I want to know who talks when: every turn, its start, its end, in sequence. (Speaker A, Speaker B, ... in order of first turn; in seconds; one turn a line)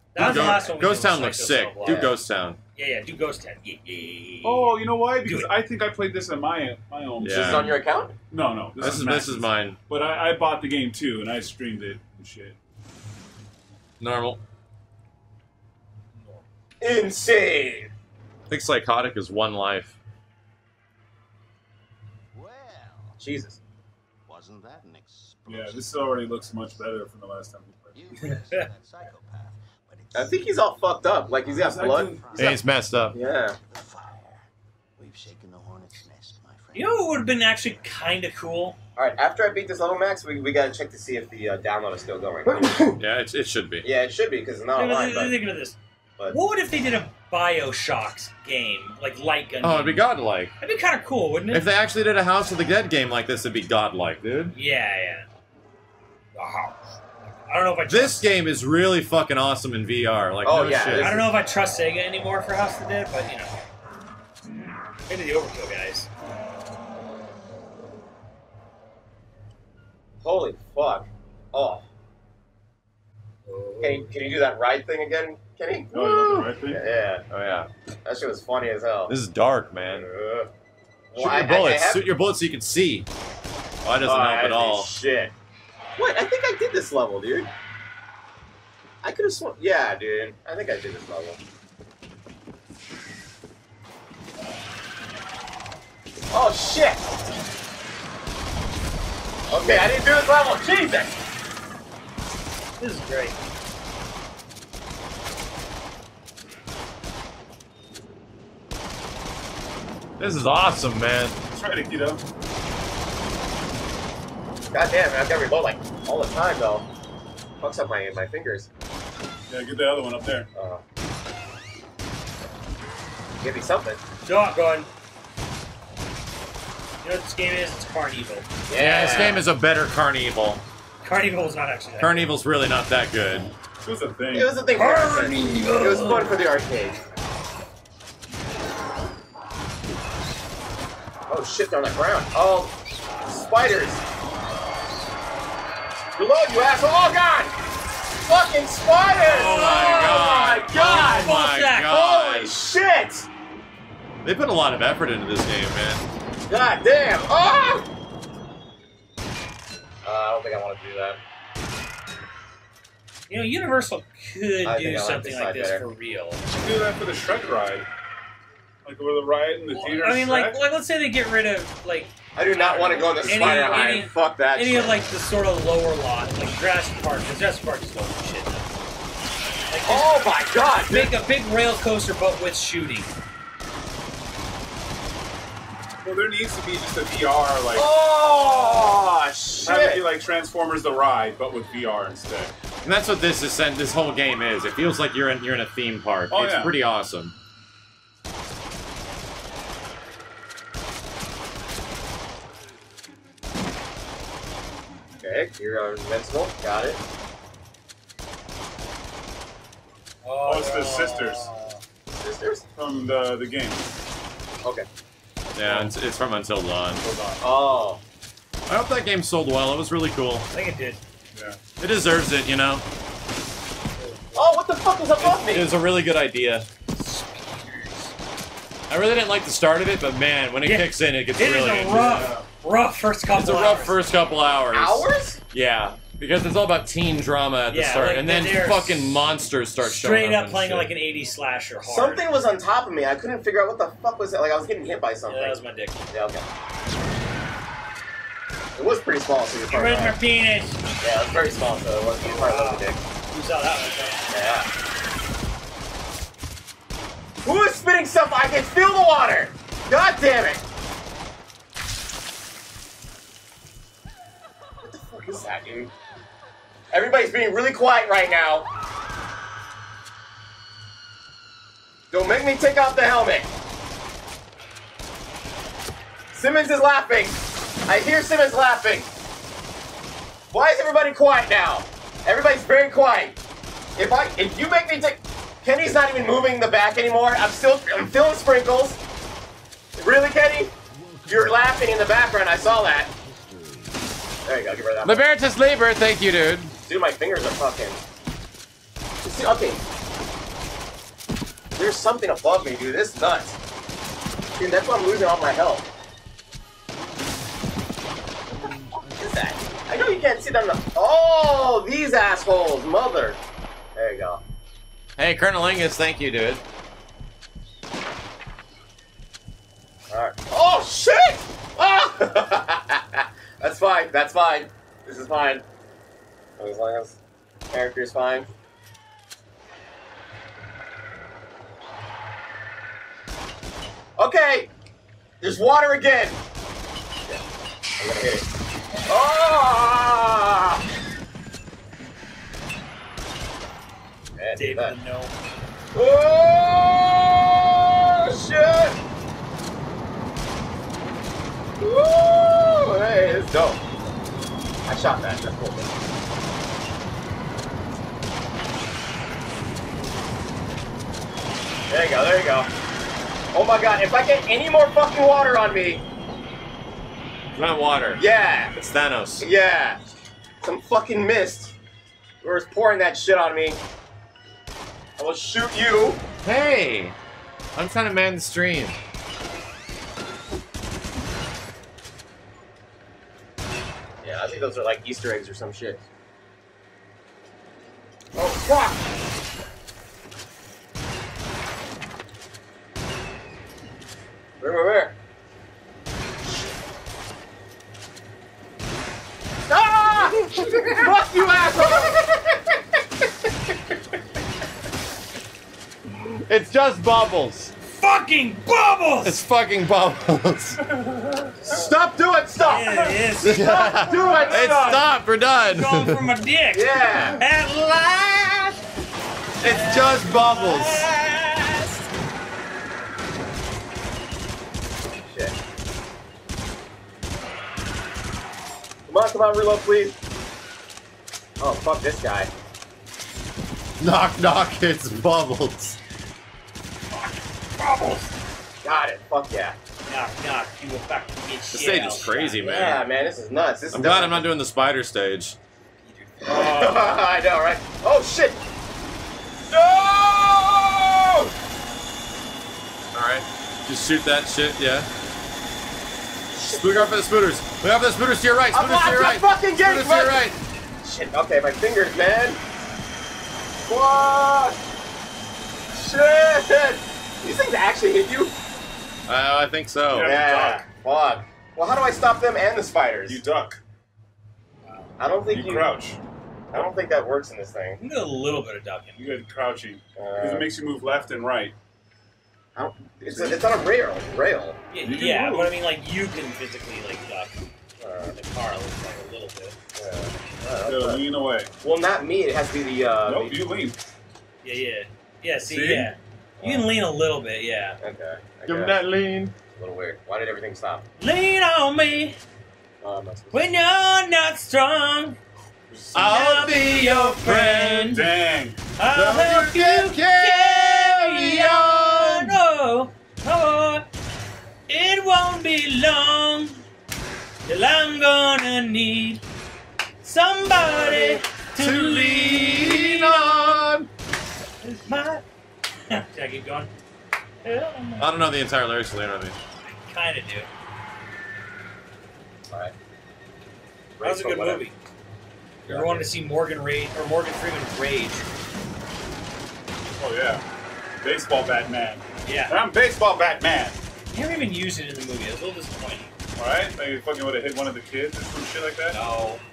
Speaker A: 0.1-2.1
Speaker B: 0.1-2.6
Speaker C: 1.8-2.1
Speaker A: 2.8-5.5
Speaker D: 4.4-7.8
Speaker B: 7.2-7.8
Speaker C: 7.2-8.2
Speaker D: 8.3-12.6
Speaker B: 8.8-9.8
Speaker B: 14.0-14.4
Speaker C: 16.8-17.9
Speaker B: 18.5-19.9
Speaker E: 22.3-23.2
Speaker C: 23.2-23.6
Speaker E: 24.2-26.3
Speaker D: 25.4-28.0
Speaker E: 27.9-34.5
Speaker A: 28.3-28.6
Speaker C: 30.1-32.1
Speaker D: 31.6-32.5
Speaker B: 32.4-33.1
Speaker C: 33.1-33.5
Speaker E: 35.0-37.1
Speaker A: 36.7-38.8
Speaker C: 39.0-43.0
Speaker B: 43.0-43.9
Speaker C: 43.8-45.5
Speaker A: 44.7-45.8
Speaker A: 46.3-50.0
Speaker B: 49.6-50.5
Speaker A: 50.6-51.6
Speaker B: 51.5-54.5
Speaker A: 54.5-55.3
Speaker A: 56.4-56.8
Speaker A: 57.5-58.2
Speaker B: 57.9-61.1
Speaker C: 60.4-61.3
Speaker A: 61.0-63.5
Speaker A: 65.0-66.1
Speaker C: 70.2-71.8
Speaker D: 73.6-73.9
Speaker C: 73.8-77.2
Speaker D: 75.9-76.8
Speaker B: 77.3-77.7
Speaker C: 78.0-79.2
Speaker B: 79.1-80.1
Speaker C: 79.8-80.5
Speaker C: 81.1-82.1
Speaker B: 81.1-83.1
Speaker B: 83.8-84.9
Speaker C: 84.0-85.3
Speaker C: 86.0-87.5
Speaker C: 89.0-91.4
Speaker C: 96.3-97.0
Speaker C: 99.5-101.2
Speaker A: 102.8-103.4
Speaker B: 110.2-111.3
Speaker D: 111.5-112.2
Speaker C: 114.7-116.9
Speaker C: 117.6-118.7
Speaker D: 119.5-120.5
Speaker C: 120.5-120.8
Speaker C: 123.4-124.0
Speaker A: 124.2-124.9
Speaker A: 127.0-128.5
Speaker C: 128.7-129.4
Speaker B: 128.7-130.6
Speaker A: 131.0-132.3
Speaker B: 132.0-133.5
Speaker D: 133.8-134.6
Speaker C: 134.3-137.0
Speaker A: 134.7-136.3
Speaker C: 141.3-142.7
Speaker C: 143.2-144.0
Speaker C: 146.2-147.5
Speaker C: 148.2-153.3
Speaker A: 149.1-151.9
Speaker B: 149.3-152.5
Speaker B: 154.2-156.0
Speaker C: 156.5-157.9
Speaker C: 160.0-161.2
Speaker A: 163.3-166.4
Speaker C: 164.6-165.8
Speaker D: 166.5-167.8
Speaker D: 168.8-170.6
Speaker A: 169.7-178.7
Speaker C: 172.3-175.0
Speaker A: 179.7-180.2
Speaker C: 179.8-181.1
Speaker A: 180.8-183.1
Speaker D: 186.0-188.0
Speaker C: 187.7-190.0
Speaker D: 188.6-188.9
Speaker D: 189.6-192.5
Speaker B: 192.8-197.3
Speaker D: 196.3-196.8
Speaker C: 205.2-207.0
Speaker A: 210.2-211.8
Speaker D: 210.4-211.5
Speaker C: 212.2-212.6
Speaker D: 212.8-213.8
Speaker B: 215.5-217.0
Speaker D: 215.6-215.9
Speaker D: 217.0-217.4
Speaker C: 217.4-218.0
Speaker B: 218.7-220.5
Speaker A: 220.5-221.0
Speaker D: 221.3-221.6
Speaker B: 221.8-222.8
Speaker C: 224.3-225.7
Speaker B: 225.2-226.7
Speaker A: 226.9-228.1
Speaker B: 228.9-232.2
Speaker A: 230.6-234.0
Speaker D: 231.9-232.4
Speaker B: 233.3-240.9
Speaker C: 234.7-235.4
Speaker A: 237.7-239.2
Speaker A: 239.8-242.3
Speaker C: 241.8-246.5
Speaker A: 245.3-246.0
Speaker C: 248.8-250.2
Speaker A: 249.7-250.8
Speaker C: 251.0-253.0
Speaker A: 252.2-254.3
Speaker C: 254.3-254.7
Speaker C: 257.4-260.6
Speaker C: 264.8-265.9
Speaker C: 266.9-268.7
Speaker C: 272.1-273.5
Speaker C: 276.3-279.1
Speaker C: 280.5-283.4
Speaker C: 283.9-289.0
Speaker C: 290.0-290.7
Speaker E: 290.9-294.2
Speaker C: 291.3-293.1
Speaker C: 294.4-295.3
Speaker B: 295.0-296.7
Speaker C: 296.8-298.0
Speaker C: 299.2-299.8
Speaker C: 301.8-303.6
Speaker C: 304.5-305.9
Speaker E: 306.9-309.6
Speaker C: 309.1-313.4
Speaker C: 313.9-314.4
Speaker B: 315.2-316.6
Speaker C: 320.1-325.6
Speaker C: 326.6-327.2
Speaker C: 327.7-328.5
Speaker C: 334.2-334.7
Speaker C: 335.4-336.4
Speaker C: 338.0-338.4
Speaker C: 339.1-340.8
Speaker C: 344.4-344.9
Speaker A: 344.6-345.3
Speaker C: 345.9-349.0
Speaker C: 351.8-353.8
Speaker C: 354.9-355.9
Speaker C: 361.9-362.7
Speaker C: 363.5-366.0
Speaker B: 367.5-368.2
Speaker C: 368.1-368.8
Speaker B: 368.8-369.5
Speaker C: 369.4-370.0
Speaker C: 370.6-371.7
Speaker C: 372.4-373.8
Speaker C: 375.2-376.2
Speaker B: 376.4-377.1
Speaker B: 377.7-379.0
Speaker C: 384.2-386.0
Speaker C: 388.3-389.0
Speaker C: 394.6-395.1
Speaker C: 399.7-402.2
Speaker B: 406.5-407.7
Speaker A: 407.9-409.4
Speaker B: 409.2-410.8
Speaker D: 411.0-411.5
Speaker C: 411.6-413.2
Speaker A: 412.6-415.1
Speaker B: 413.4-416.2
Speaker C: 413.9-414.9
Speaker A: 415.6-418.7
Speaker C: 416.7-417.4
Speaker A: 419.6-422.0
Speaker B: 419.6-421.1
Speaker C: 425.2-425.5
Speaker C: 429.1-430.1
Speaker C: 431.6-432.5
Speaker B: 434.0-436.0
Speaker A: 437.1-438.3
Speaker C: 438.8-439.8
Speaker A: 440.1-442.6
Speaker B: 441.7-443.0
Speaker C: 442.6-444.5
Speaker B: 443.9-445.6
Speaker A: 446.1-446.8
Speaker C: 446.4-448.6
Speaker C: 449.7-451.5
Speaker B: 453.1-455.1
Speaker C: 456.5-457.1
Speaker B: 456.7-460.6
Speaker C: 458.7-460.4
Speaker C: 461.0-462.6
Speaker C: 463.9-464.8
Speaker C: 465.9-468.5
Speaker B: 469.3-470.4
Speaker D: 470.1-470.8
Speaker C: 470.2-473.4
Speaker D: 473.3-473.8
Speaker C: 475.2-475.9
Speaker D: 475.5-476.2
Speaker C: 476.7-478.0
Speaker A: 478.0-479.3
Speaker D: 479.1-481.7
Speaker C: 480.1-480.7
Speaker C: 482.8-484.8
Speaker A: 484.9-487.5
Speaker D: 485.0-485.7
Speaker C: 488.0-488.3
Speaker A: 488.2-489.8
Speaker C: 489.9-491.2
Speaker D: 490.8-491.7
Speaker C: 491.8-493.6
Speaker D: 493.2-494.0
Speaker A: 494.6-498.0
Speaker D: 495.6-496.1
Speaker C: 496.6-496.9
Speaker C: 498.0-499.0
Speaker B: 498.7-499.5
Speaker C: 499.7-501.0
Speaker A: 501.2-502.4
Speaker C: 503.0-503.7
Speaker A: 503.5-505.4
Speaker A: 506.1-508.3
Speaker B: 506.1-508.3
Speaker D: 508.1-508.8
Speaker A: 509.0-514.0
Speaker B: 509.1-512.6
Speaker A: 514.9-516.8
Speaker A: 517.6-519.4
Speaker A: 520.2-523.8
Speaker B: 521.1-524.1
Speaker A: 524.8-525.4
Speaker A: 526.1-526.9
Speaker A: 527.6-528.3
Speaker B: 528.2-529.5
Speaker A: 529.8-530.7
Speaker C: 532.7-532.9
Speaker C: 534.2-534.9
Speaker A: 534.2-534.9
Speaker A: 535.9-538.4
Speaker C: 535.9-536.3
Speaker D: 540.2-540.6
Speaker D: 541.2-544.0
Speaker A: 542.4-542.8
Speaker A: 544.3-546.3
Speaker D: 546.6-549.2
Speaker A: 549.1-549.6